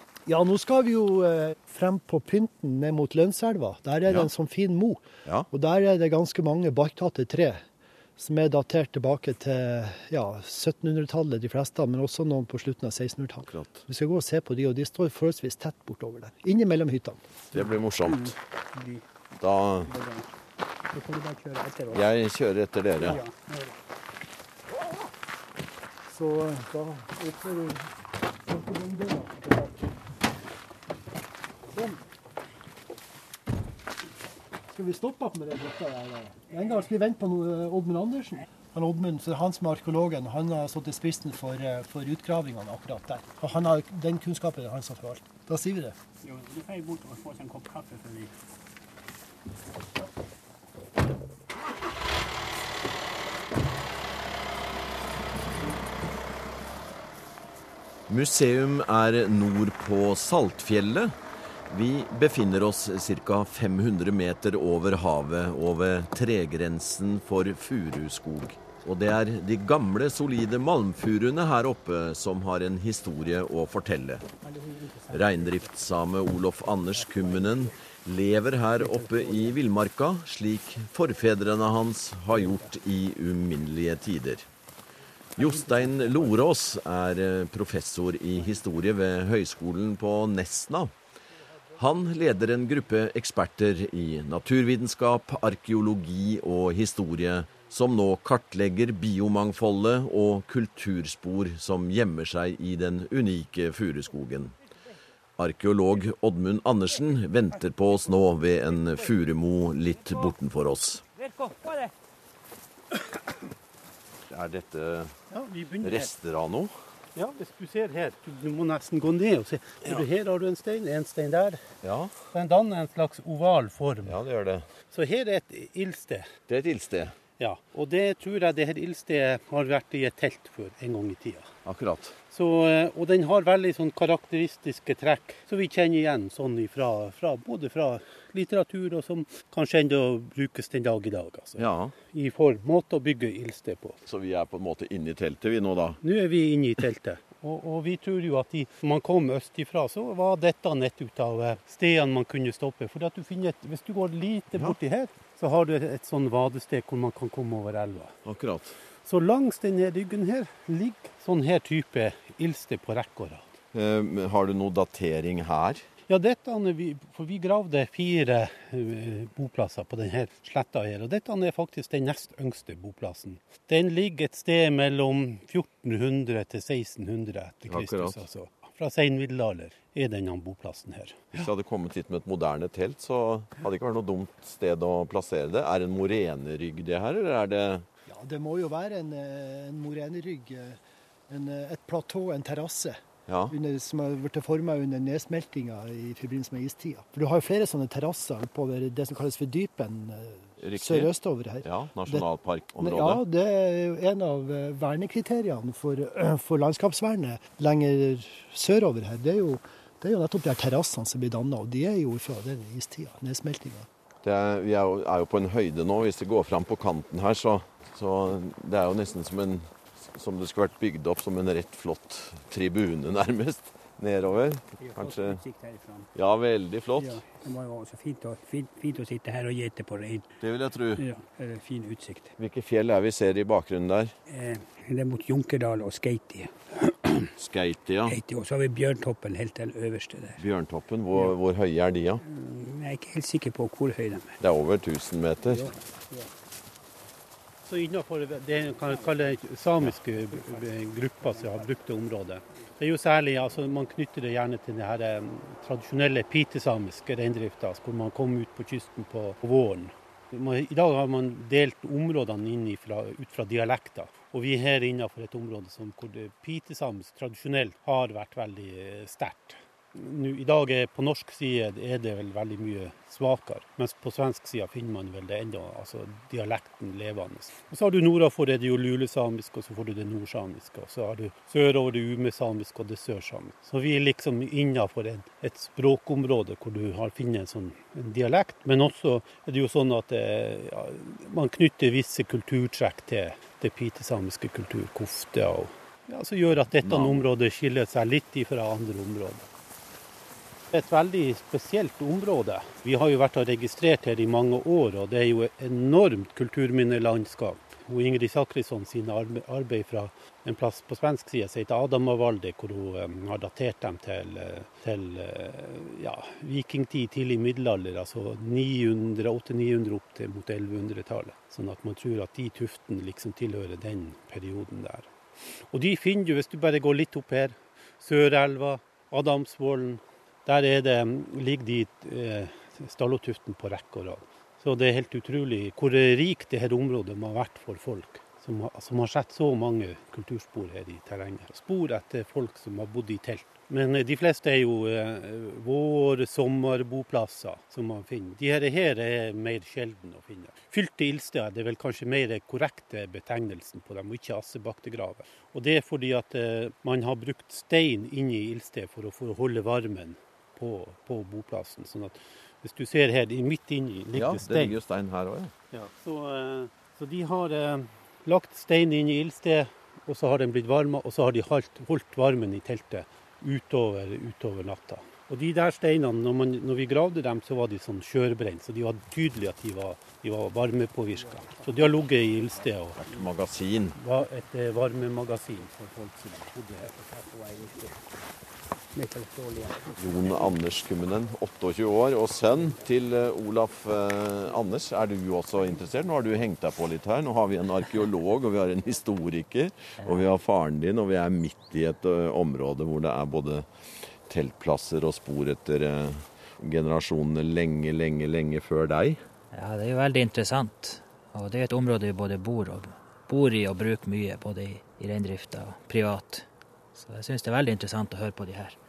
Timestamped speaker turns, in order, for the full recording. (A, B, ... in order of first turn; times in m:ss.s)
0:00.3-0:07.6 A
0:08.2-0:17.2 A
0:13.5-0:13.8 B
0:17.5-0:18.4 B
0:18.1-0:19.0 C
0:19.4-0:19.9 B
0:19.9-0:20.3 C
0:20.9-0:22.0 C
0:21.9-0:23.2 B
0:23.0-0:23.8 C
0:26.1-0:27.9 A
0:28.5-0:29.9 A
0:31.7-0:32.0 A
0:34.7-0:46.0 A
0:46.2-0:48.3 C
0:58.1-1:01.2 B
1:01.7-1:14.2 B
1:14.4-1:15.7 C
1:15.1-1:24.5 B
1:16.8-1:17.8 C
1:18.8-1:19.6 C
1:25.4-1:26.3 C
1:25.4-1:30.9 B
1:31.8-1:44.6 B
1:45.4-1:51.0 B
1:51.2-1:51.9 C
1:54.3-1:55.1 B
1:55.3-1:56.1 D
1:55.8-1:56.7 B
1:57.2-2:01.6 D
2:01.8-2:02.2 B
2:02.3-2:04.2 D
2:04.0-2:04.7 B
2:04.9-2:06.3 D
2:06.5-2:07.2 B
2:07.4-2:11.5 D
2:11.6-2:12.2 B
2:12.3-2:24.0 D
2:21.6-2:21.9 B
2:24.1-2:26.0 B
2:26.0-2:38.2 D
2:38.2-2:38.8 B
2:39.1-2:43.5 D
2:43.7-2:45.8 B
2:46.1-3:01.5 D
2:57.7-2:58.2 B
3:01.3-3:07.9 B
3:08.1-3:10.8 A
3:11.3-3:33.9 A
3:13.3-3:13.6 B
3:20.6-3:21.1 B
3:21.6-3:23.2 B
3:34.2-3:45.4 B
3:44.8-3:46.1 C
3:46.2-3:47.2 B
3:47.0-3:50.3 C
3:50.4-3:51.0 B
3:51.0-3:52.3 C
3:52.4-3:54.1 B
3:54.3-3:57.3 C
3:57.4-3:58.2 B
3:58.1-4:00.4 C
4:00.4-4:02.2 B
4:02.2-4:04.4 C
4:04.4-4:05.6 B
4:05.4-4:06.3 C
4:07.7-4:59.5 D
4:11.3-4:11.6 C
4:56.8-4:57.3 B
5:00.7-6:04.8 D
6:04.1-6:05.5 B
6:05.7-6:23.0 D
6:21.4-6:21.8 C
6:23.0-6:24.0 B
6:24.0-6:25.8 D
6:25.8-6:28.0 C
6:28.9-6:30.4 C
6:30.0-6:43.7 B
6:44.3-6:49.2 B
6:49.5-6:58.8 E